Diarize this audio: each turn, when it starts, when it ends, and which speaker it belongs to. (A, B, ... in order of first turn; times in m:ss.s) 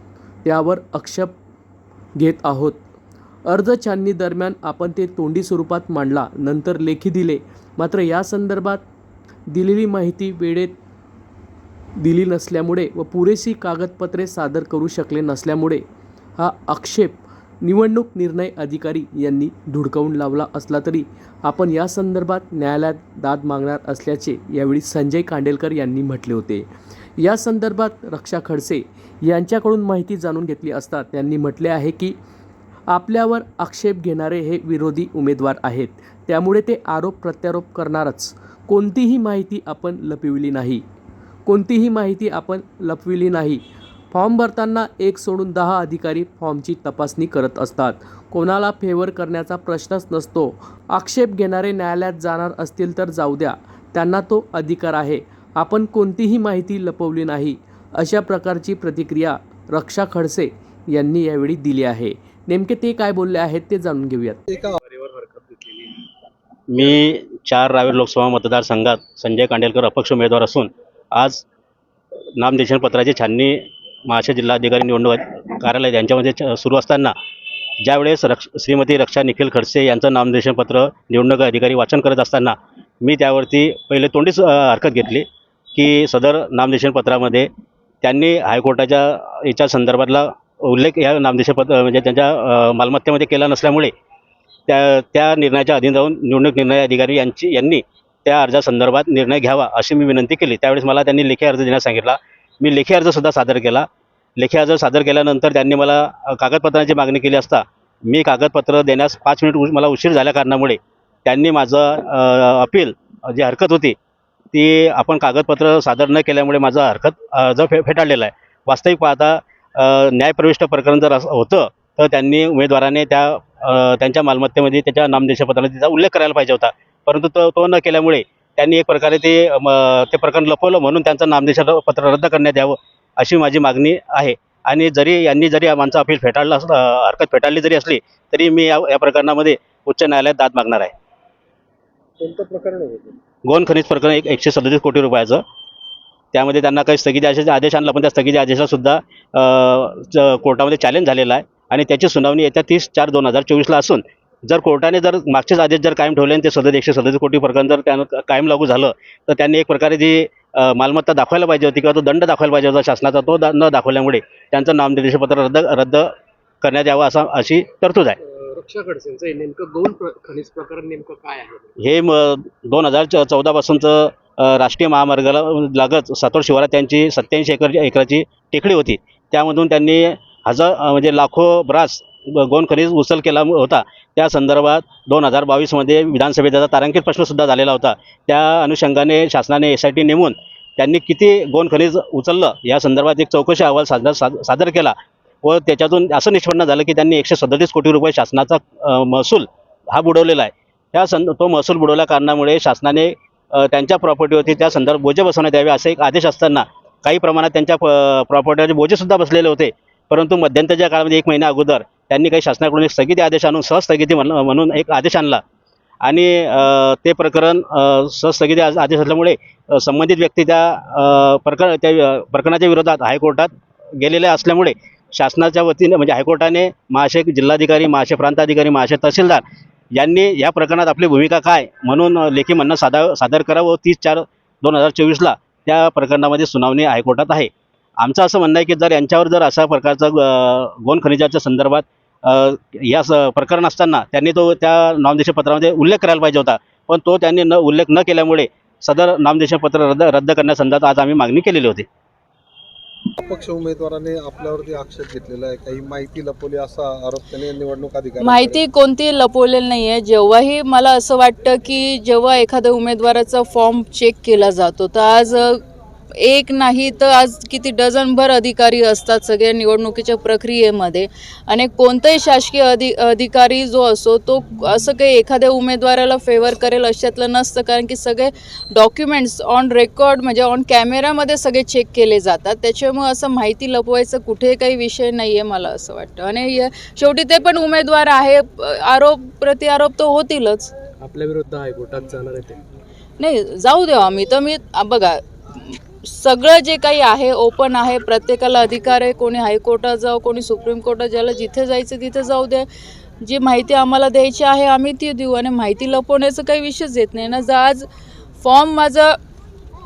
0:00.4-0:01.4 A
0:02.2-0:02.8 A
0:03.5-0:08.8 A
0:09.5-0:10.8 A
0:12.0-0:15.8 A
0:16.4-0:26.7 A
0:27.2-0:32.2 A
0:32.9-0:40.8 A
0:41.5-1:04.4 A
1:04.5-1:04.8 B
1:04.9-1:05.8 C
1:06.7-1:11.4 D
1:12.4-1:13.6 D
1:14.1-1:17.1 D
1:17.8-1:27.5 D
1:28.0-1:33.9 D
1:34.7-1:43.8 D
1:44.4-1:54.0 D
1:54.5-2:20.9 D
2:22.2-2:23.2 B
2:23.4-2:25.4 D
2:26.3-2:46.1 D
2:46.6-2:48.2 D
2:48.4-2:51.7 C
2:51.8-3:35.4 D
3:36.0-3:49.4 D
3:49.9-3:57.5 D
3:58.0-4:11.9 D
4:13.2-4:18.6 B
4:18.2-4:25.5 E
4:26.2-4:50.7 E
4:51.0-4:52.6 A
4:53.2-5:02.6 E
5:03.2-5:07.9 E
5:08.4-5:09.1 E